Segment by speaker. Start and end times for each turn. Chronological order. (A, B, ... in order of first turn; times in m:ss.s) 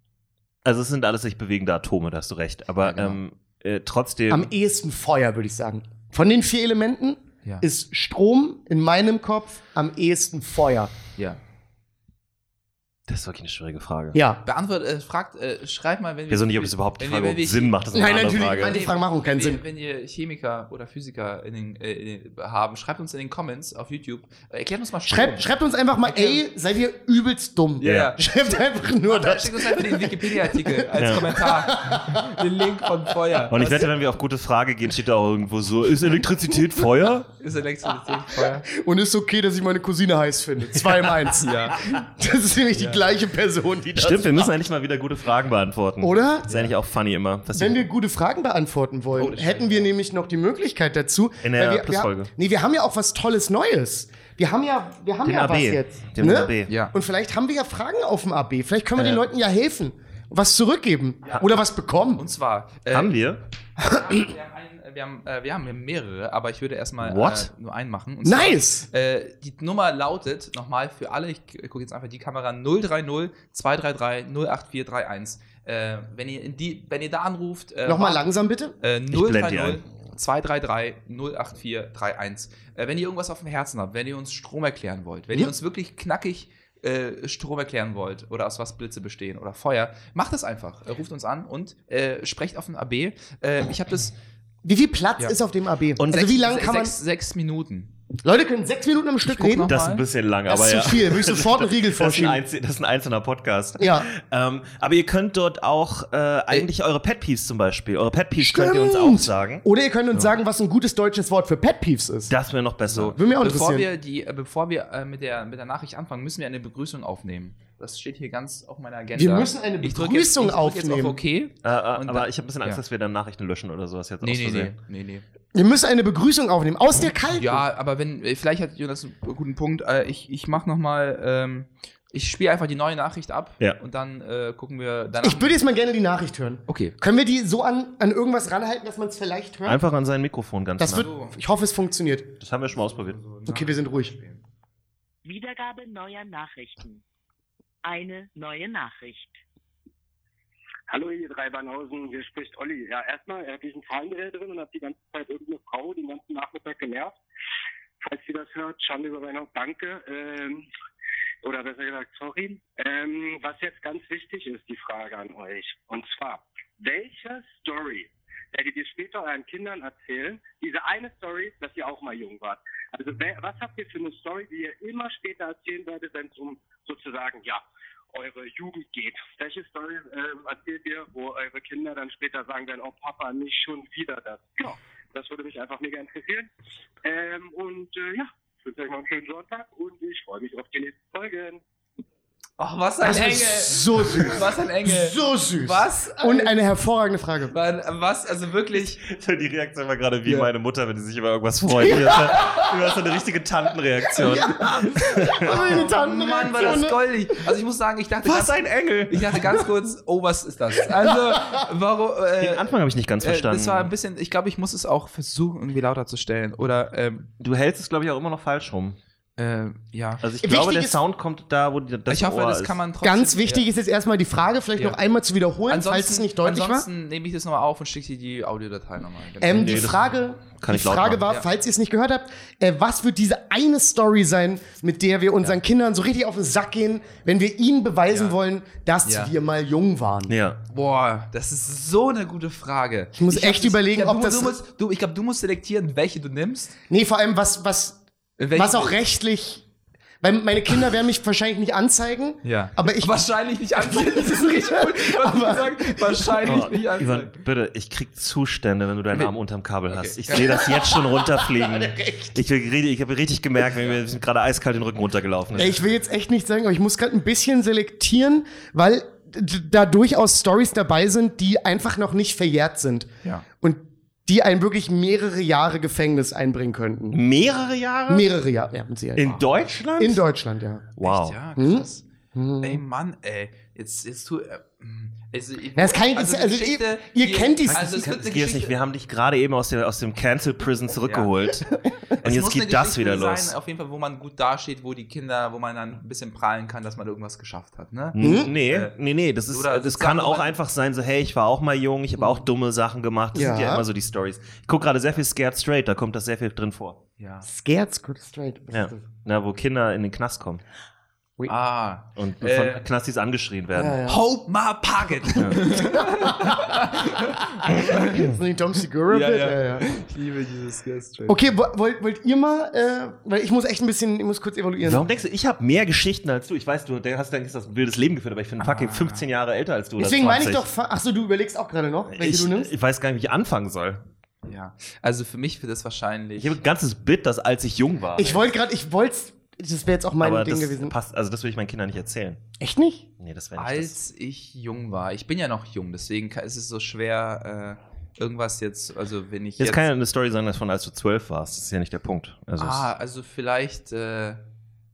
0:00.6-0:04.5 A
0:02.8-0:03.2 B
0:04.3-0:10.9 C
0:13.1-0:14.2 A
0:14.1-0:14.4 C
0:14.4-0:17.8 B
0:16.3-0:18.8 A
0:17.9-0:19.6 C
0:18.4-0:26.4 B
0:25.1-0:32.6 C
0:27.8-0:33.9 B
0:27.8-0:28.1 A
0:31.0-0:31.3 A
0:33.5-0:37.3 A
0:37.4-0:38.7 B
0:38.1-0:44.5 C
0:41.4-0:42.0 B
0:42.8-0:43.0 B
0:44.0-0:47.9 A
0:46.0-0:46.7 C
0:47.5-1:02.2 C
0:49.2-0:49.9 B
0:51.4-0:52.3 A
0:55.2-0:56.7 A
0:56.7-0:56.9 B
1:02.2-1:03.2 B
1:02.9-1:03.4 A
1:03.8-1:18.2 B
1:03.9-1:04.1 C
1:07.0-1:07.5 A
1:08.2-1:08.9 C
1:17.8-1:18.8 C
1:18.8-1:34.1 B
1:19.1-1:19.8 A
1:34.6-1:37.0 C
1:36.0-1:36.3 A
1:36.1-1:38.0 B
1:38.2-1:39.7 C
1:39.3-1:40.0 B
1:39.7-1:49.6 A
1:40.5-1:42.4 C
1:43.8-1:44.1 C
1:48.4-1:52.3 C
1:52.3-1:53.2 A
1:52.9-2:02.8 B
1:53.1-1:53.9 C
1:59.2-2:01.2 C
2:01.6-2:04.8 A
2:04.2-2:05.2 B
2:05.5-2:07.6 C
2:07.3-2:15.6 B
2:15.2-2:19.8 C
2:16.7-2:17.0 B
2:19.7-2:21.1 A
2:20.8-2:22.3 C
2:20.9-2:21.4 B
2:22.4-2:23.2 A
2:22.7-2:24.4 B
2:23.5-2:24.2 C
2:25.2-2:27.0 D
2:27.8-2:29.4 D
2:30.9-2:37.2 E
2:38.0-2:40.7 E
2:41.4-3:06.5 E
3:07.0-3:11.6 E
3:12.6-3:16.6 B
3:13.0-3:17.6 C
3:17.5-3:19.0 B
3:19.0-3:25.9 A
3:22.0-3:22.6 B
3:24.2-3:27.0 C
3:25.4-3:32.7 B
3:28.2-3:29.6 A
3:31.1-3:31.6 C
3:32.4-3:33.9 A
3:33.2-3:37.3 B
3:37.4-3:39.0 A
3:39.4-3:40.2 B
3:40.2-3:42.8 A
3:40.4-3:41.0 C
3:42.1-3:43.7 B
3:43.0-3:46.9 C
3:45.7-3:49.9 B
3:49.4-4:00.4 C
3:49.5-3:50.1 A
3:50.6-3:51.2 A
3:58.1-3:58.4 B
3:59.0-3:59.3 B
4:00.3-4:00.6 A
4:00.7-4:06.7 B
4:03.2-4:04.6 C
4:06.9-4:08.0 C
4:08.4-4:09.0 B
4:08.5-4:09.6 C
4:10.2-4:13.2 C
4:12.4-4:17.4 B
4:13.8-4:16.4 C
4:16.4-4:25.8 A
4:19.9-4:20.6 B
4:20.4-4:22.4 C
4:25.6-4:33.1 C
4:33.6-4:37.2 C
4:37.1-4:38.3 A
4:38.1-4:39.4 C
4:39.2-4:40.2 A
4:40.0-4:40.9 C
4:41.0-4:41.4 A
4:41.0-4:42.0 B
4:41.6-4:42.8 C
4:42.6-4:48.7 B
4:45.8-4:48.0 C
4:47.7-4:53.5 A
4:51.1-4:51.3 B
4:52.2-4:58.9 B
4:58.2-5:07.0 A
4:58.2-4:58.5 C
4:59.5-5:00.6 B
5:03.3-5:03.8 C
5:07.2-5:07.5 B
5:07.5-5:09.1 C
5:08.7-5:10.6 A
5:11.5-5:12.8 B
5:12.2-5:14.0 A
5:13.8-5:14.2 C
5:14.1-5:18.3 B
5:15.4-5:15.9 A
5:15.8-5:16.6 C
5:17.7-5:19.9 C
5:19.1-5:21.5 B
5:21.3-5:25.0 C
5:24.8-5:30.6 A
5:28.6-5:29.2 B
5:30.0-5:32.7 C
5:32.1-5:34.0 A
5:34.4-5:36.6 B
5:36.4-5:38.4 A
5:38.2-5:40.9 C
5:40.2-5:42.4 A
5:42.6-5:43.1 C
5:43.2-5:44.0 A
5:43.6-5:49.9 B
5:49.6-5:52.9 A
5:52.6-5:54.4 B